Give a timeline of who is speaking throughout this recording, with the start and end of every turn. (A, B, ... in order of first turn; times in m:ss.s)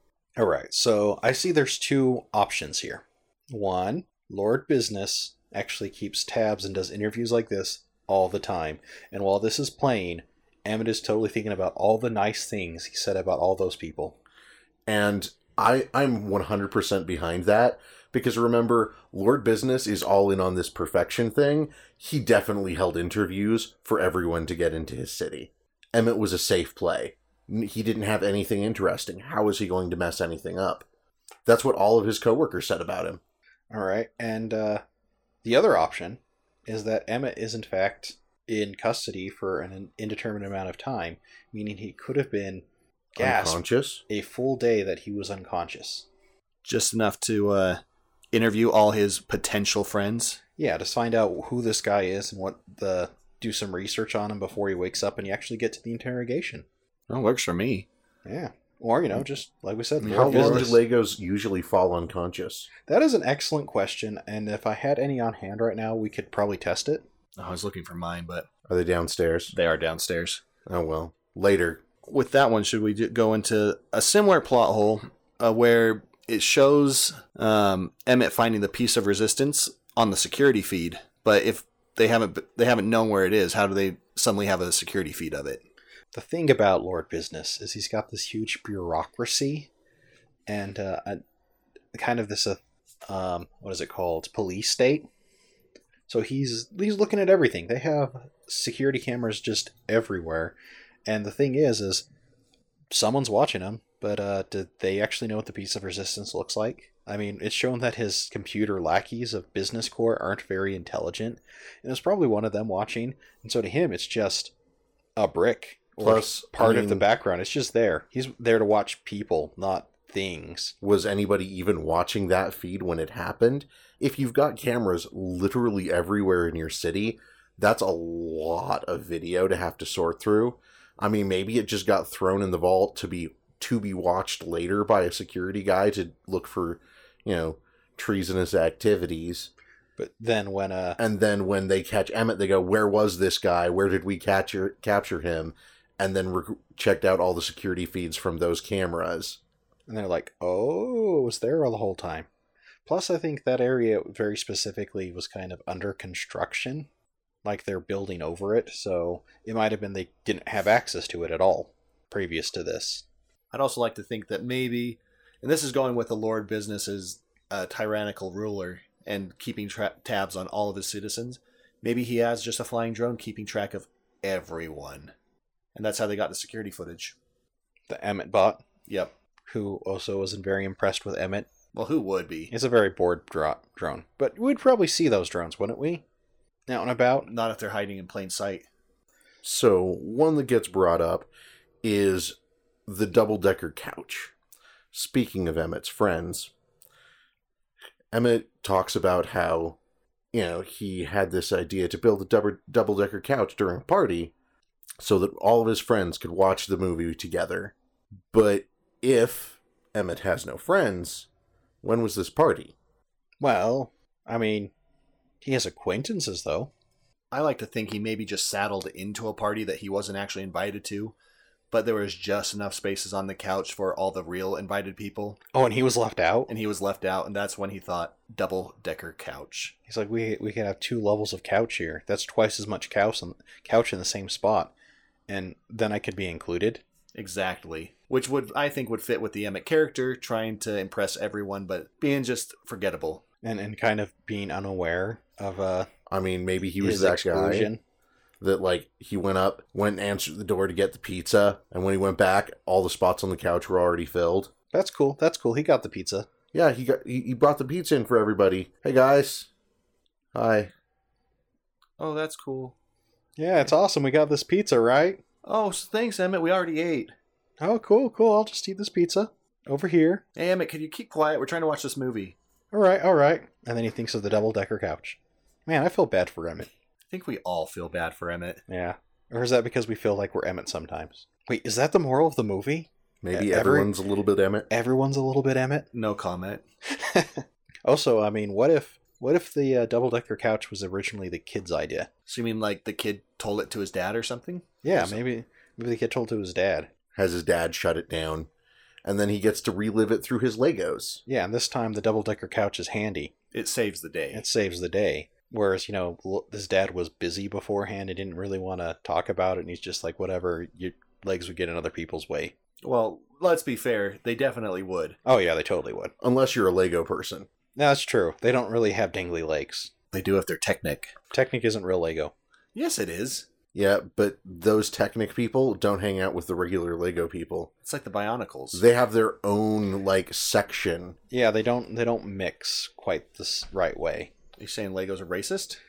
0:00.4-0:14.2 A
0:14.9-0:30.8 B
0:31.4-0:33.2 B
0:33.7-0:34.8 A
0:35.4-0:42.6 A
0:43.2-0:46.1 A
0:43.2-0:44.0 B
0:46.6-0:47.8 C
0:48.3-0:50.4 C
0:50.6-0:56.6 A
0:57.1-0:57.9 C
0:58.2-1:00.8 A
1:00.0-1:00.7 C
1:00.1-1:02.7 B
1:02.9-1:07.0 A
1:07.4-1:08.5 C
1:08.7-1:09.5 B
1:09.5-1:10.4 C
1:10.6-1:11.8 B
1:12.0-1:25.6 C
1:26.1-1:29.7 A
1:30.5-1:31.2 A
1:31.9-1:35.1 A
1:36.1-1:42.0 A
1:42.9-1:54.5 A
1:55.2-2:00.7 A
1:56.0-1:57.0 B
2:00.8-2:19.5 B
2:20.0-2:21.0 A
2:21.0-2:29.4 B
2:29.9-2:32.3 A
2:32.8-2:36.9 A
2:37.4-2:43.0 A
2:43.5-2:55.1 C
2:55.7-2:57.1 C
2:57.9-2:58.6 A
2:58.9-2:59.1 C
2:59.5-3:01.5 A
3:01.7-3:02.5 C
3:02.5-3:06.0 A
3:06.7-3:07.3 A
3:07.2-3:08.7 C
3:09.4-3:11.3 B
3:11.8-3:14.3 B
3:14.9-3:16.5 B
3:18.1-3:19.8 B
3:20.3-3:24.3 B
3:25.0-3:27.7 B
3:28.3-3:31.3 B
3:31.8-3:32.7 B
3:33.4-3:34.7 A
3:35.4-3:36.7 A
3:37.3-3:41.1 C
3:41.7-3:45.4 C
3:45.5-3:46.5 A
3:46.5-3:49.7 C
3:49.9-3:54.7 A
3:55.3-3:56.8 A
3:57.1-4:03.2 C
4:03.4-4:05.9 A
4:06.1-4:07.7 B
4:06.8-4:07.8 A
4:08.4-4:14.5 B
4:14.7-4:16.3 A
4:16.5-4:19.5 B
4:20.3-4:20.7 B
4:22.0-4:22.7 C
4:23.4-4:25.2 A
4:25.4-4:27.1 C
4:27.6-4:30.2 A
4:30.4-4:32.4 C
4:32.7-4:36.7 A
4:37.1-4:38.6 C
4:38.7-4:43.9 A
4:43.2-4:44.7 B
4:44.7-4:45.9 A
4:45.9-4:46.6 C
4:46.9-4:52.1 A
4:52.3-4:55.2 C
4:54.8-4:56.9 A
4:57.1-4:58.5 B
4:59.0-5:01.2 B
5:01.3-5:03.3 A
5:03.5-5:04.4 C
5:04.3-5:12.5 A
5:12.8-5:15.2 C
5:15.2-5:16.1 A
5:16.2-5:17.5 B
5:17.8-5:19.9 A
5:20.1-5:21.1 C
5:21.3-5:22.3 A
5:22.7-5:23.5 C
5:23.7-5:27.7 B
5:27.8-5:28.8 C
5:28.7-5:31.2 B
5:31.3-5:34.3 A
5:34.6-5:35.8 C